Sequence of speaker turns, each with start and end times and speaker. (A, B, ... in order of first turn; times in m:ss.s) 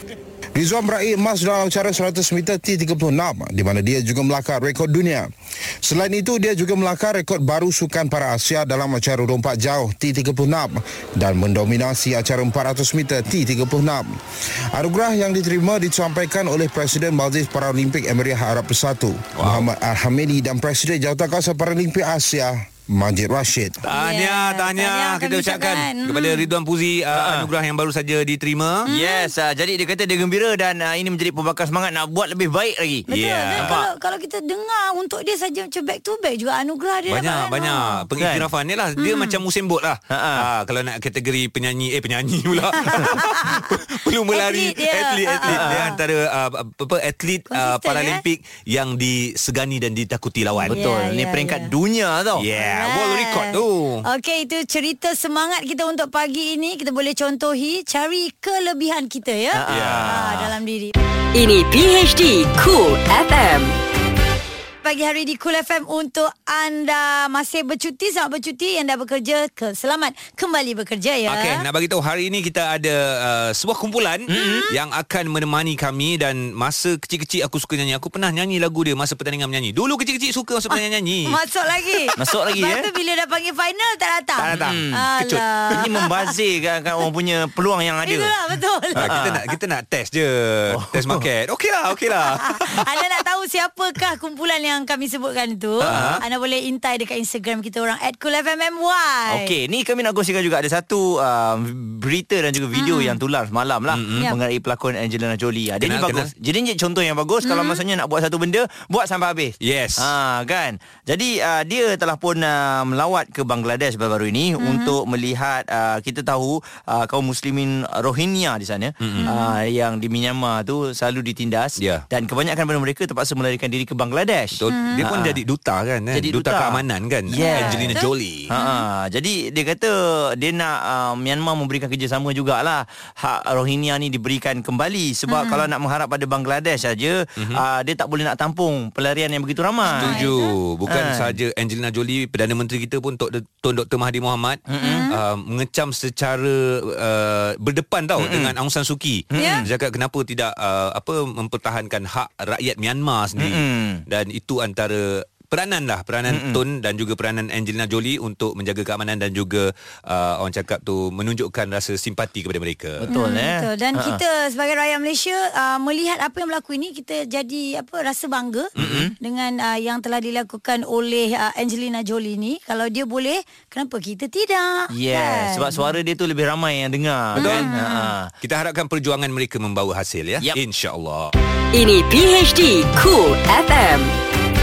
0:00.6-0:05.3 A
0:05.8-0:14.1 A
0:14.8-0:23.8 A
0:19.4-0:19.7 B
0:23.8-0:28.9 B
0:23.9-0:26.5 C
0:27.1-0:27.5 D
0:28.9-0:29.3 C
0:28.9-0:33.1 D
0:33.1-0:38.0 C
0:33.1-0:33.8 B
0:33.6-0:33.9 D
0:37.1-0:50.8 B
0:38.2-0:38.5 D
0:39.0-0:39.4 C
0:40.1-0:40.5 D
0:42.8-0:43.7 C
0:44.3-0:46.0 C
0:45.5-0:45.8 D
0:47.5-0:48.2 C
0:50.6-0:52.4 D
0:50.7-0:51.7 C
0:52.4-0:54.0 B
0:52.6-1:00.9 C
0:59.5-1:00.5 D
0:59.7-1:00.2 B
1:01.3-1:03.7 E
1:04.8-1:11.6 C
1:11.3-1:21.4 B
1:14.3-1:14.7 D
1:14.3-1:14.8 C
1:20.7-1:26.3 C
1:22.2-1:22.9 D
1:24.4-1:25.4 B
1:24.5-1:25.1 D
1:25.7-1:28.3 D
1:28.0-1:29.2 C
1:29.0-1:32.9 B
1:29.0-1:29.4 D
1:30.7-1:31.2 D
1:32.4-1:39.5 C
1:35.8-1:36.2 D
1:35.8-1:36.2 B
1:39.3-2:05.4 D
1:42.7-1:43.2 C
1:43.9-1:44.3 B
1:45.8-1:46.3 B
1:47.4-1:47.8 C
1:49.6-1:50.1 B
1:54.6-1:55.0 C
1:59.0-1:59.3 B
1:59.2-1:59.6 C
2:01.8-2:02.0 B
2:04.6-2:08.5 B
2:04.7-2:05.0 C
2:06.1-2:20.3 D
2:07.4-2:08.9 C
2:15.3-2:15.7 C
2:19.8-2:20.6 C
2:20.0-2:43.1 B
2:20.9-2:21.4 D
2:24.7-2:25.1 D
2:24.8-2:25.2 C
2:28.2-2:28.5 D
2:29.3-2:29.7 D
2:29.4-2:29.7 C
2:33.4-2:34.0 D
2:36.3-2:36.6 D
2:43.0-2:44.2 D
2:43.1-2:55.9 C
2:48.8-2:49.1 B
2:48.8-2:49.2 D
2:54.9-2:58.3 D
2:57.4-2:58.1 C
2:57.4-2:57.7 B
2:58.4-3:01.3 B
3:01.7-3:04.2 E